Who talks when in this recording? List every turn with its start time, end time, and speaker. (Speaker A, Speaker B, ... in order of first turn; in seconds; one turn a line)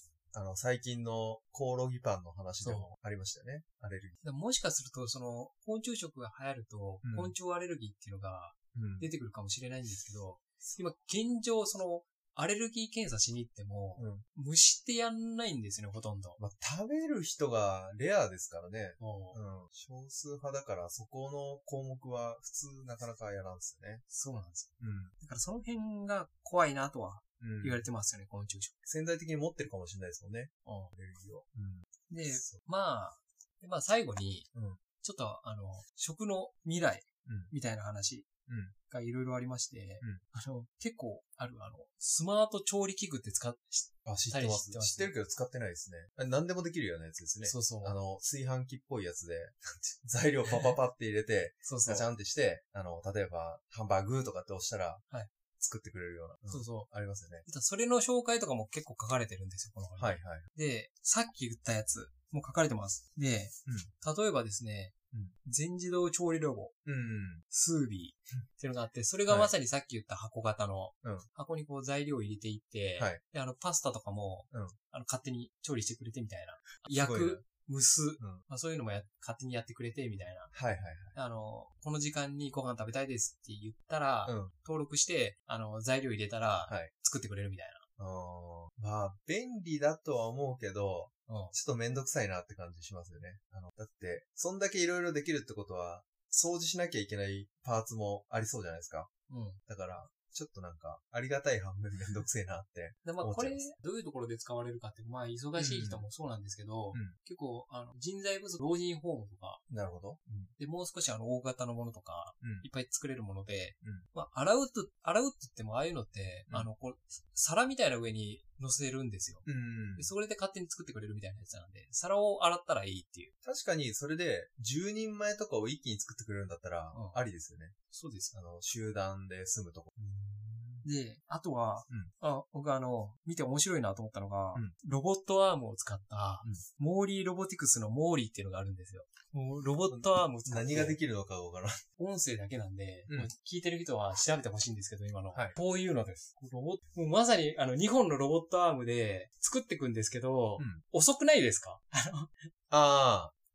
Speaker A: 0.3-4.2
Speaker B: 2.6-2.9
Speaker B: 4.2-16.4
Speaker A: 7.0-7.4
Speaker A: 8.7-9.1
Speaker A: 14.0-14.2
Speaker A: 16.4-24.0
Speaker B: 19.0-19.4
Speaker B: 24.1-28.8
Speaker A: 24.8-25.1
Speaker A: 27.4-27.8
Speaker A: 28.9-32.6
Speaker B: 30.6-30.9
Speaker B: 32.1-34.5
Speaker A: 34.5-34.8
Speaker B: 35.0-38.3
Speaker A: 37.3-37.5
Speaker A: 38.5-38.8
Speaker B: 38.9-45.1
Speaker A: 44.0-55.0
Speaker B: 47.4-48.0
Speaker B: 50.5-50.8
Speaker B: 51.6-52.1
Speaker A: 55.6-57.5
Speaker B: 56.5-56.9
Speaker B: 57.5-64.9
Speaker A: 60.0-60.5
Speaker A: 63.7-63.9
Speaker B: 65.5-66.7
Speaker A: 66.9-67.4
Speaker B: 67.5-80.5
Speaker A: 69.3-69.5
Speaker A: 74.5-74.8
Speaker A: 76.9-77.5
Speaker A: 78.2-78.5
Speaker A: 80.5-81.2
Speaker B: 81.1-87.8
Speaker A: 84.2-84.5
Speaker A: 86.7-86.9
Speaker A: 88.0-99.1
Speaker B: 91.3-91.5
Speaker B: 99.3-99.6
Speaker A: 99.7-103.7
Speaker B: 103.0-109.6
Speaker A: 105.6-106.1
Speaker A: 109.7-110.5
Speaker B: 110.6-123.3
Speaker A: 112.4-112.7
Speaker A: 119.5-120.1
Speaker A: 123.4-127.8
Speaker B: 126.9-127.2
Speaker B: 127.9-128.3
Speaker A: 128.3-130.9
Speaker B: 130.8-141.0
Speaker A: 139.9-141.8
Speaker B: 142.0-152.4
Speaker A: 152.7-153.3